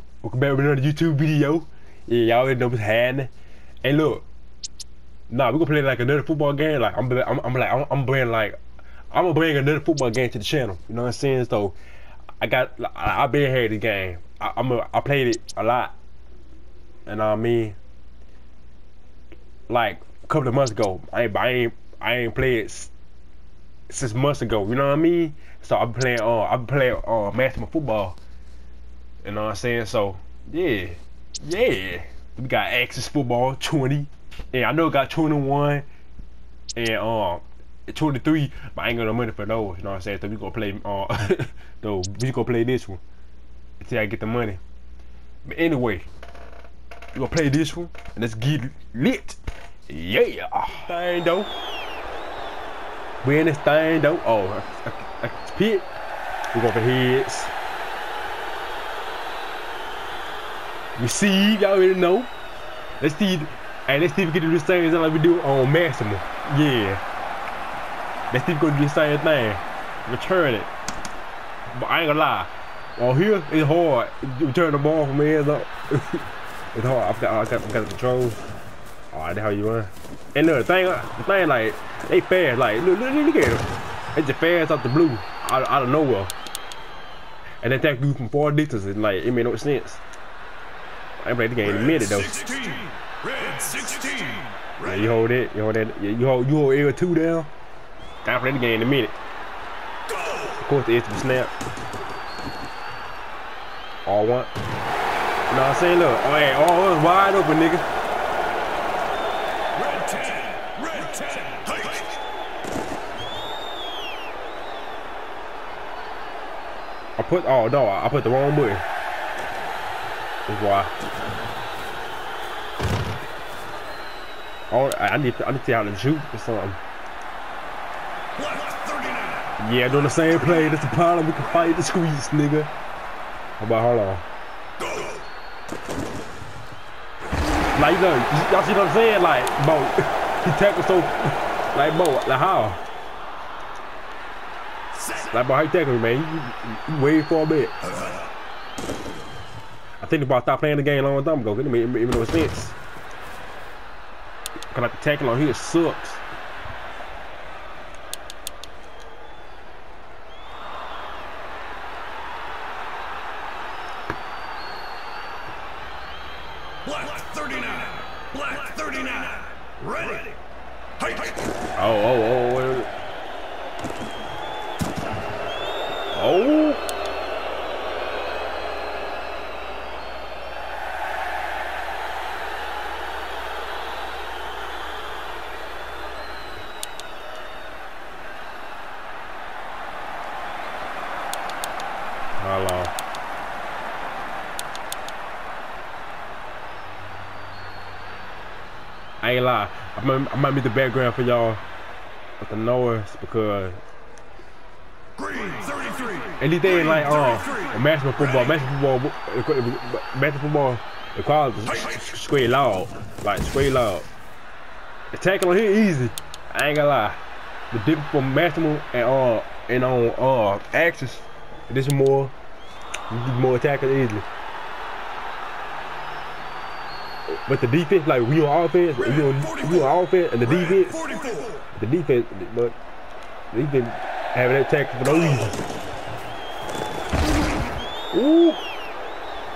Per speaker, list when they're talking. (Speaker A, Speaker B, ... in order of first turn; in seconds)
Speaker A: 0.2-3.3, 3.8-4.2, 5.3-8.6, 9.1-11.7, 12.4-15.9, 17.1-17.8, 19.7-22.9, 23.9-28.1, 29.2-35.8, 36.7-43.0, 43.8-44.6, 45.4-46.1, 47.1-49.4, 49.9-51.5, 53.2-55.8, 56.5-57.5, 61.0-62.3, 63.0-67.0, 68.3-70.7, 71.7-78.4, 79.1-86.3, 87.6-90.0, 91.2-92.7, 94.8-97.5, 98.2-99.1, 100.4-101.5, 104.0-104.5, 105.5-107.8, 117.2-118.8, 120.5-120.9, 124.7-126.8, 129.6-132.7, 133.6-134.2, 137.7-142.8, 145.1-147.8, 150.0-152.8, 154.7-156.2, 171.8-172.9, 176.1-176.8, 192.4-192.9, 199.2-201.6, 202.4-203.8, 206.4-214.1, 215.1-217.2, 217.7-222.3, 223.1-224.2, 227.3-232.7, 233.5-235.6, 238.1-238.6
Speaker B: 93.3-94.4, 109.8-112.0, 128.5-129.3, 166.9-170.3, 205.3-206.1